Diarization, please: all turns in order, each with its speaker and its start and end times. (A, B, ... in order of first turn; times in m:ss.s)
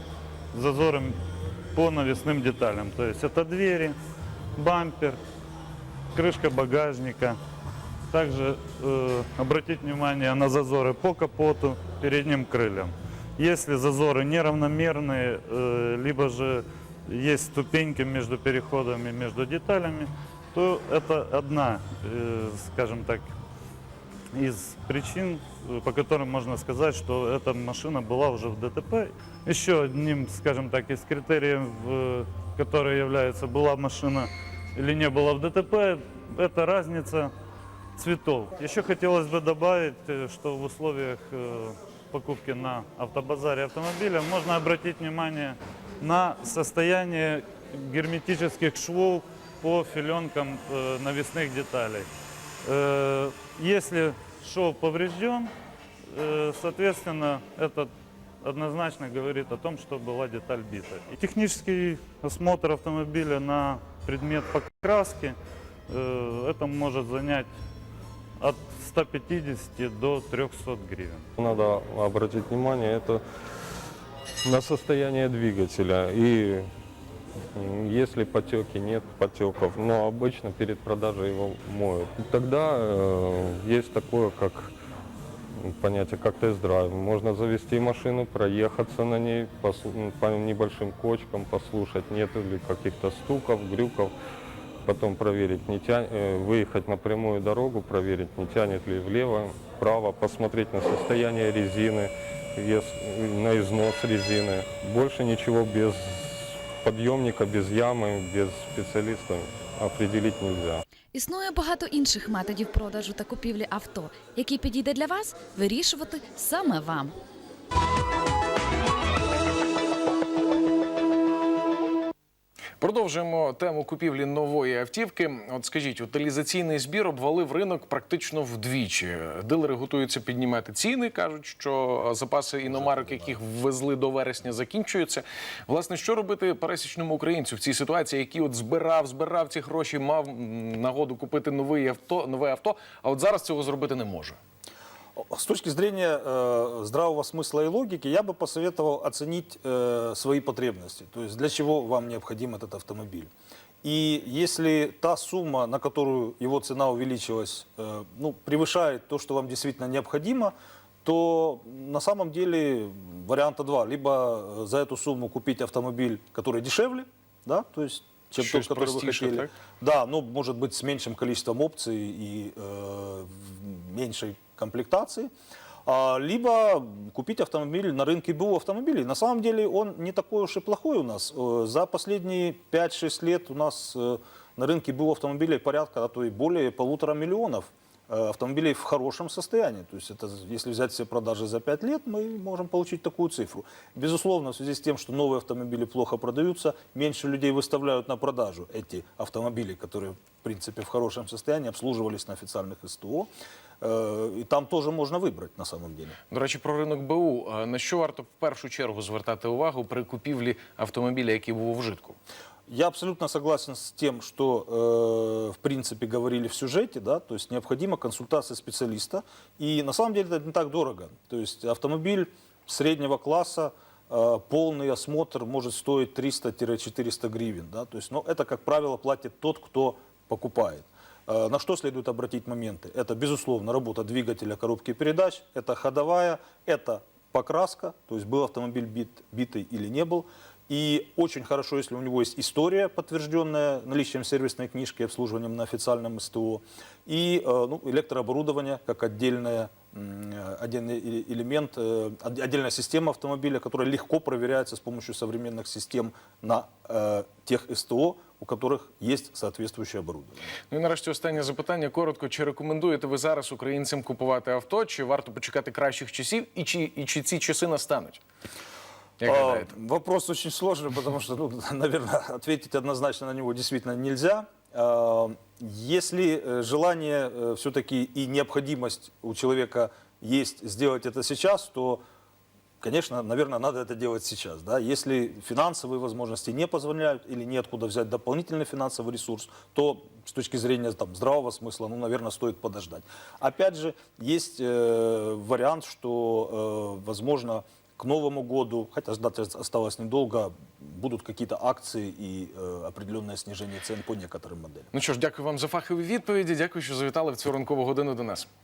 0:00.5-0:01.2 A
0:01.7-0:03.9 A
0:04.5-0:05.2 A
0:06.1-0:07.4 A
0:08.1-0:23.3 A
0:24.3-0:37.3 A
0:38.0-0:52.1 A
0:52.6-0:55.5 A
0:56.1-0:57.9 A
0:58.4-1:05.4 A
1:05.9-1:07.5 A
1:08.4-1:11.2 A
1:11.4-1:13.2 B
1:14.4-1:16.7 B
1:17.5-1:24.7 B
1:25.6-1:34.1 B
1:34.8-1:50.8 B
1:51.1-1:57.2 C
2:02.8-2:24.4 D
2:12.7-2:13.4 E
2:25.2-2:33.3 E
2:33.8-2:55.3 E
2:48.4-2:49.5 D
2:55.8-3:23.3 E
3:23.8-3:26.2 E
3:26.3-3:32.2 D
3:32.7-4:20.5 E
4:20.7-4:28.2 D
4:29.2-4:29.7 D
4:29.2-4:42.0 E
4:42.8-5:04.9 E
5:04.9-5:08.5 D